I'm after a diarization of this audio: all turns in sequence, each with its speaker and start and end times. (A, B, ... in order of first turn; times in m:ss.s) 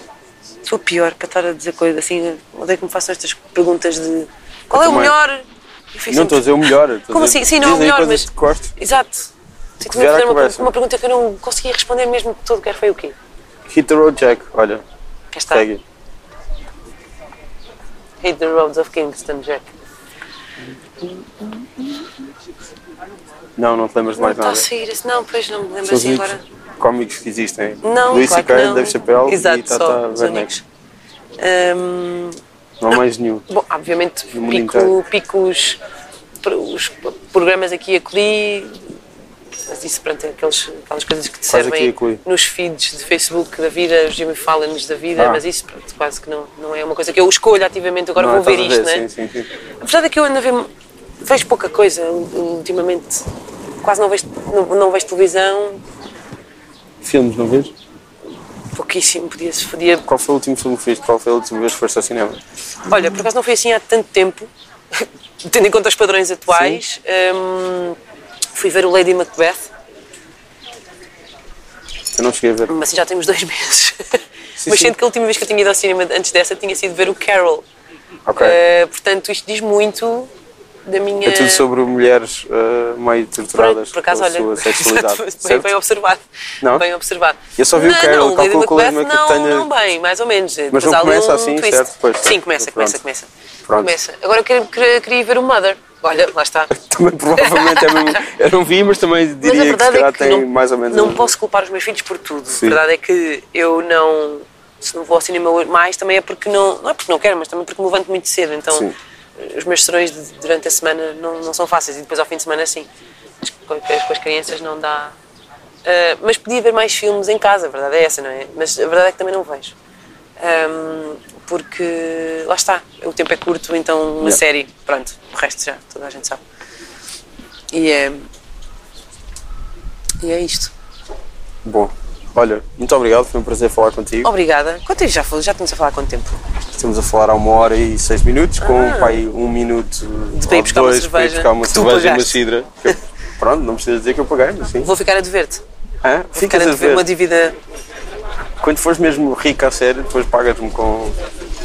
0:00.6-0:13.2 A
0:04.7-0:05.2 B
0:06.1-0:08.7 B
0:09.8-0:10.7 B
0:13.7-0:14.8 B
0:15.3-0:15.7 A
0:15.5-0:15.8 B
0:18.2-0:19.7 A
0:21.4-0:21.9 A
0:23.6-0:24.7 B
0:24.2-0:26.4 A
0:25.8-0:30.5 B
0:27.8-0:30.6 A
0:31.4-0:32.4 A
0:32.8-0:33.5 B
0:33.5-0:35.8 A
0:34.3-0:35.0 B
0:36.4-0:38.9 A
0:39.7-0:49.1 A
0:41.5-0:42.2 B
0:45.2-0:45.4 B
0:48.2-0:49.5 B
0:49.8-0:50.7 A
0:51.2-0:53.3 A
0:53.8-0:55.8 A
0:57.0-0:57.7 B
0:58.8-1:00.0 A
1:00.0-1:02.4 B
1:02.9-1:08.0 A
1:06.5-1:06.8 B
1:08.5-1:09.7 A
1:12.1-1:12.7 B
1:12.7-1:17.6 A
1:14.6-1:14.9 B
1:18.3-1:18.6 B
1:18.4-1:20.3 A
1:20.8-1:21.7 A
1:21.2-1:25.7 B
1:23.5-1:36.7 A
1:26.6-1:26.9 B
1:27.6-1:29.7 B
1:30.7-1:33.0 B
1:33.7-1:33.9 B
1:36.7-1:41.3 B
1:37.3-1:38.2 A
1:39.4-1:52.9 A
1:42.5-1:42.8 B
1:53.4-1:55.2 A
1:55.8-1:59.8 A
2:00.4-2:06.4 A
2:07.7-2:08.3 A
2:10.2-2:10.7 A
2:11.6-2:14.3 B
2:14.2-2:16.4 A
2:16.7-2:24.9 B
2:18.6-2:19.2 A
2:20.3-2:22.4 A
2:24.8-2:25.6 A
2:26.0-2:27.1 B
2:26.4-2:27.6 A
2:28.6-2:31.2 B